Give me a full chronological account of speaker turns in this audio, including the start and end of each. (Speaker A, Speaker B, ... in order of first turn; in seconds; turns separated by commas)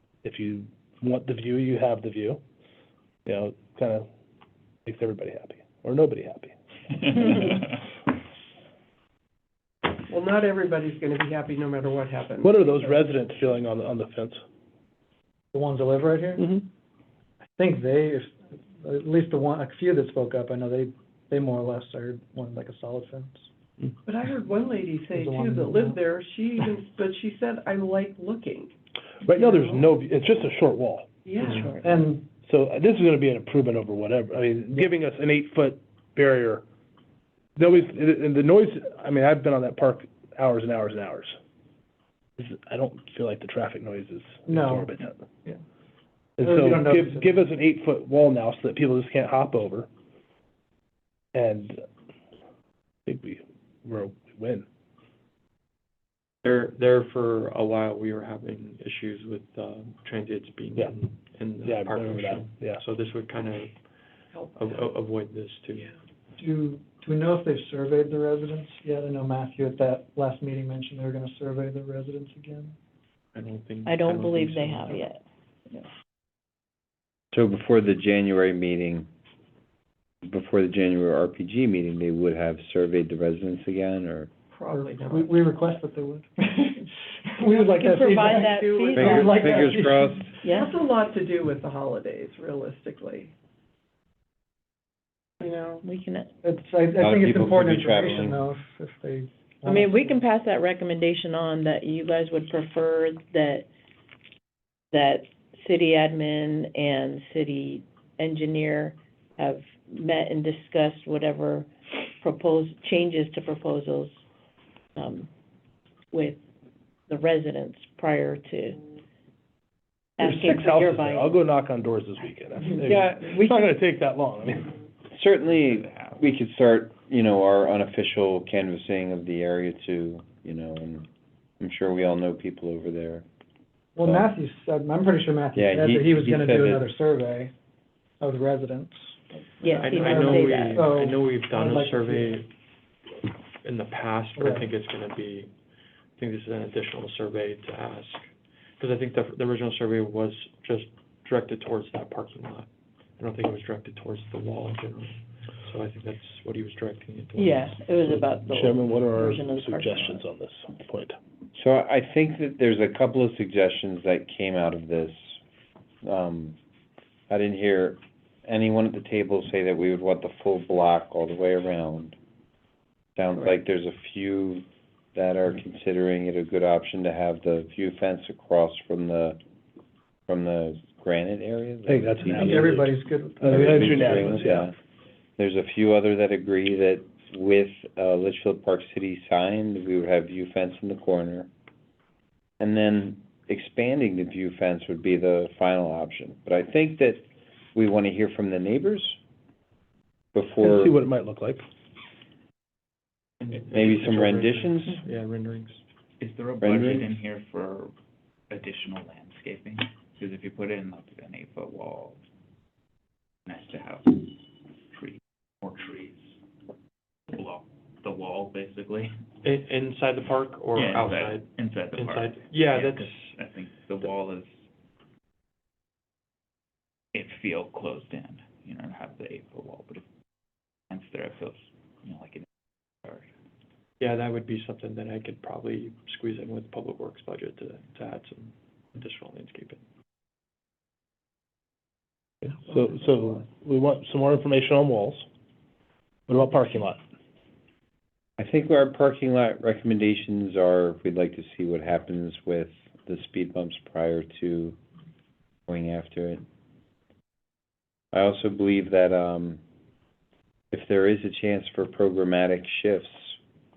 Speaker A: 0.2-2.4, Speaker A: 3.3-4.1, Speaker A: 4.9-7.6, Speaker B: 9.9-12.4, Speaker A: 12.4-14.4, Speaker C: 15.5-16.7, Speaker A: 16.4-16.6, Speaker C: 17.6-23.5, Speaker B: 24.1-28.7, Speaker C: 25.1-26.1, Speaker A: 29.2-31.1, Speaker B: 31.2-31.7, Speaker D: 31.6-32.1, Speaker C: 31.8-32.3, Speaker A: 32.4-36.6, Speaker A: 37.6-41.4, Speaker A: 42.4-45.2, Speaker C: 44.5-44.9, Speaker A: 46.4-49.9, Speaker C: 46.4-47.3, Speaker A: 51.3-51.8, Speaker A: 53.1-54.7, Speaker E: 56.4-65.9, Speaker A: 61.6-62.8, Speaker B: 64.3-64.9, Speaker C: 66.4-72.8, Speaker E: 73.3-75.1, Speaker D: 73.8-75.2, Speaker F: 77.3-79.1, Speaker F: 80.2-84.3, Speaker B: 84.5-85.3, Speaker C: 84.7-90.4, Speaker D: 87.6-89.4, Speaker B: 88.3-89.7, Speaker F: 88.9-90.3, Speaker D: 90.4-90.8, Speaker B: 90.4-93.3, Speaker B: 95.4-95.8, Speaker D: 95.8-96.3, Speaker C: 96.4-100.2, Speaker F: 97.0-98.4, Speaker D: 99.7-103.7, Speaker D: 104.9-111.7, Speaker D: 112.2-114.2, Speaker D: 115.0-115.3, Speaker D: 116.1-116.4, Speaker D: 117.1-118.8, Speaker D: 120.2-121.4, Speaker A: 120.2-124.7, Speaker F: 122.8-123.6, Speaker F: 125.1-131.1, Speaker G: 125.6-126.2, Speaker F: 131.6-133.2, Speaker C: 134.0-137.5, Speaker F: 134.0-134.3, Speaker F: 135.5-136.9, Speaker C: 138.2-142.4, Speaker D: 139.6-141.0, Speaker E: 139.7-142.5, Speaker E: 143.6-145.5, Speaker C: 144.4-144.7, Speaker E: 146.2-158.6, Speaker D: 157.3-160.2, Speaker A: 158.1-161.2, Speaker F: 161.5-165.4, Speaker F: 166.0-166.6, Speaker F: 167.3-172.2, Speaker F: 173.2-179.4, Speaker F: 180.3-182.7, Speaker A: 181.8-184.7, Speaker C: 182.3-184.7, Speaker F: 183.4-184.8, Speaker F: 185.4-191.5, Speaker F: 192.6-197.2, Speaker F: 197.8-199.2, Speaker F: 200.3-201.0, Speaker A: 200.6-201.6, Speaker E: 203.4-205.8, Speaker F: 203.7-205.0, Speaker G: 206.2-207.9, Speaker F: 206.6-207.1, Speaker G: 208.5-212.2, Speaker G: 213.5-216.3, Speaker G: 217.3-219.2, Speaker E: 219.4-223.3, Speaker G: 220.8-224.5, Speaker G: 227.1-230.0, Speaker G: 230.9-232.5, Speaker E: 234.0-239.8, Speaker A: 242.4-245.3, Speaker A: 246.3-247.0, Speaker F: 248.4-254.8, Speaker F: 255.7-256.4, Speaker F: 258.1-259.6, Speaker F: 260.7-263.4